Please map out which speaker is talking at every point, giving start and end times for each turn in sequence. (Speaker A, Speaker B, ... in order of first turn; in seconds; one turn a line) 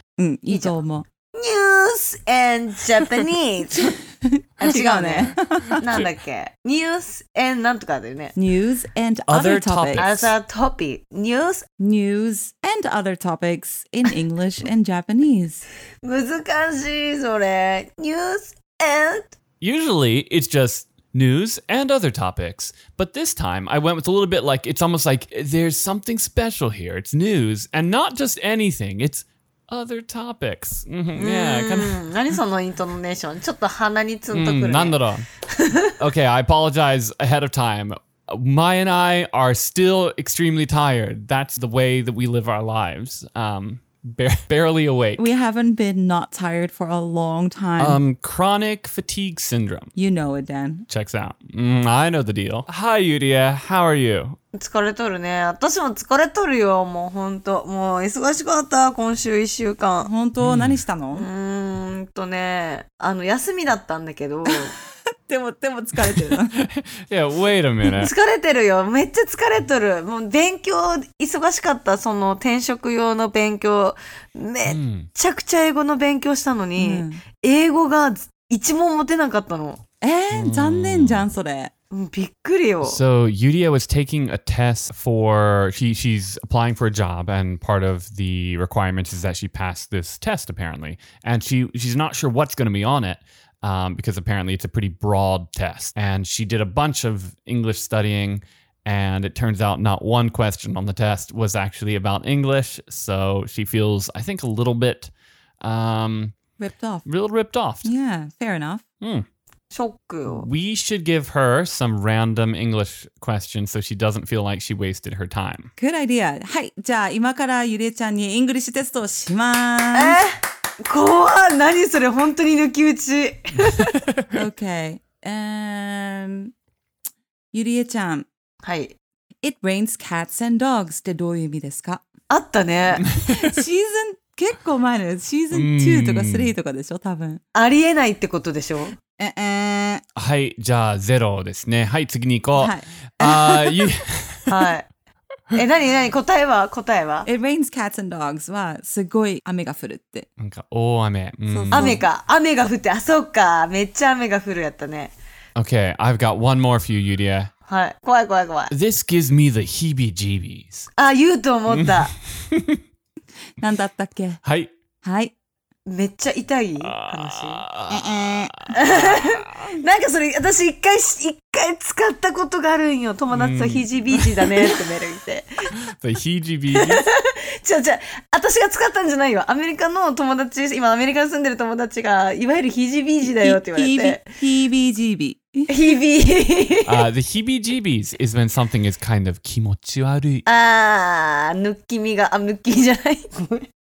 Speaker A: 0.2-1.0
Speaker B: 0.5-0.8
Speaker B: 1.3-3.9
Speaker A: 4.2-5.8
Speaker B: 4.6-8.3
Speaker A: 8.3-10.0
Speaker C: 9.3-10.3
Speaker B: 9.9-11.7
Speaker A: 11.8-15.6
Speaker B: 16.0-19.3
Speaker C: 19.6-32.0
Speaker B: 31.1-36.0
Speaker C: 34.3-35.2
Speaker C: 36.0-45.3
Speaker A: 45.2-48.0
Speaker C: 47.8-49.9
Speaker A: 50.0-50.9
Speaker C: 50.9-54.4
Speaker B: 54.5-60.1
Speaker A: 60.0-61.3
Speaker C: 60.4-60.8
Speaker B: 61.1-64.7
Speaker A: 65.3-66.7
Speaker C: 66.2-68.1
Speaker B: 67.9-79.8
Speaker C: 74.6-75.1
Speaker A: 76.8-77.2
Speaker A: 80.0-81.7
Speaker C: 80.3-81.2
Speaker B: 81.9-83.0
Speaker C: 82.8-106.3
Speaker A: 106.6-107.0
Speaker C: 107.0-107.9
Speaker A: 107.8-108.8
Speaker C: 109.0-109.2
Speaker B: 109.7-110.5
Speaker C: 110.2-115.7
Speaker A: 115.8-120.2
Speaker B: 119.9-124.0
Speaker C: 123.8-124.3
Speaker A: 124.3-126.5
Speaker A: 127.5-128.3
Speaker B: 128.6-128.9
Speaker A: 129.4-132.0
Speaker B: 132.3-133.0
Speaker C: 133.0-133.6
Speaker A: 133.2-137.4
Speaker C: 135.5-136.5
Speaker B: 137.5-139.0
Speaker A: 139.2-140.0
Speaker C: 140.2-144.6
Speaker A: 142.6-143.9
Speaker B: 144.5-144.9
Speaker B: 145.5-147.3
Speaker A: 147.2-150.3
Speaker C: 150.4-152.0
Speaker A: 151.5-152.0
Speaker B: 151.7-155.1
Speaker C: 155.6-157.5
Speaker B: 157.7-158.7
Speaker C: 158.7-160.9
Speaker B: 161.0-162.1
Speaker C: 161.7-162.8
Speaker A: 163.6-164.4
Speaker C: 164.4-164.7
Speaker A: 165.0-165.3
Speaker B: 165.8-167.7
Speaker C: 166.8-169.7
Speaker A: 167.9-168.5
Speaker B: 168.7-175.7
Speaker C: 173.3-174.7
Speaker C: 175.7-177.0
Speaker B: 176.7-184.2
Speaker A: 183.2-185.8
Speaker B: 185.7-187.1
Speaker C: 186.8-190.4
Speaker B: 190.4-193.7